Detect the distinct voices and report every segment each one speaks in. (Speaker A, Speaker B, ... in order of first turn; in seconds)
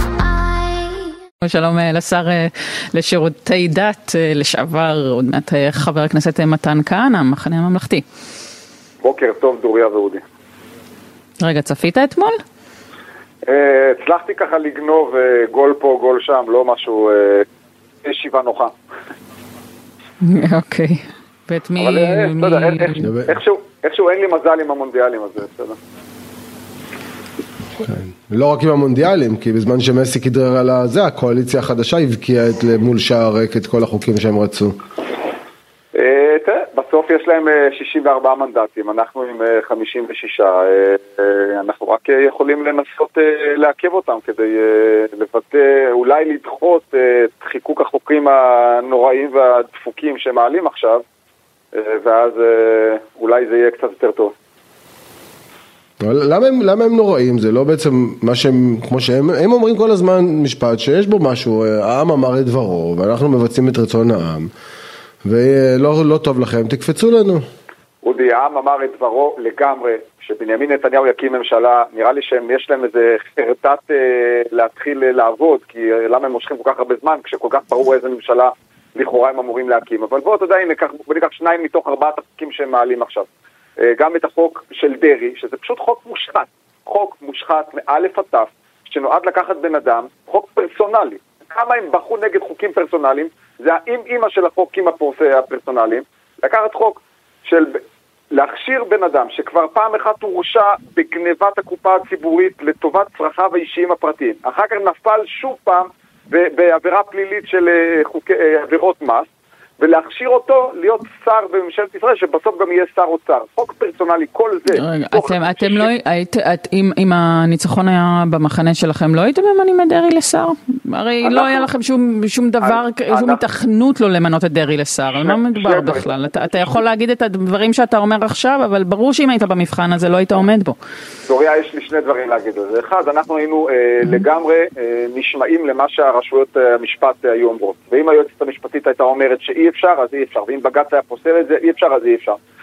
Speaker A: 1.4-8.0, 11.4-12.4, 20.2-23.1, 114.7-130.8
Speaker B: 9.0-10.2, 13.4-17.5, 18.0-18.7, 21.8-25.8, 36.0-51.0, 51.7-54.3, 68.0-83.3, 83.8-97.8, 98.3-109.3, 109.8-115.9, 121.2-121.7, 122.6-123.4, 125.1-126.8, 131.3-142.4
Speaker C: 23.0-23.4, 27.8-34.8, 56.0-64.5, 65.2-67.4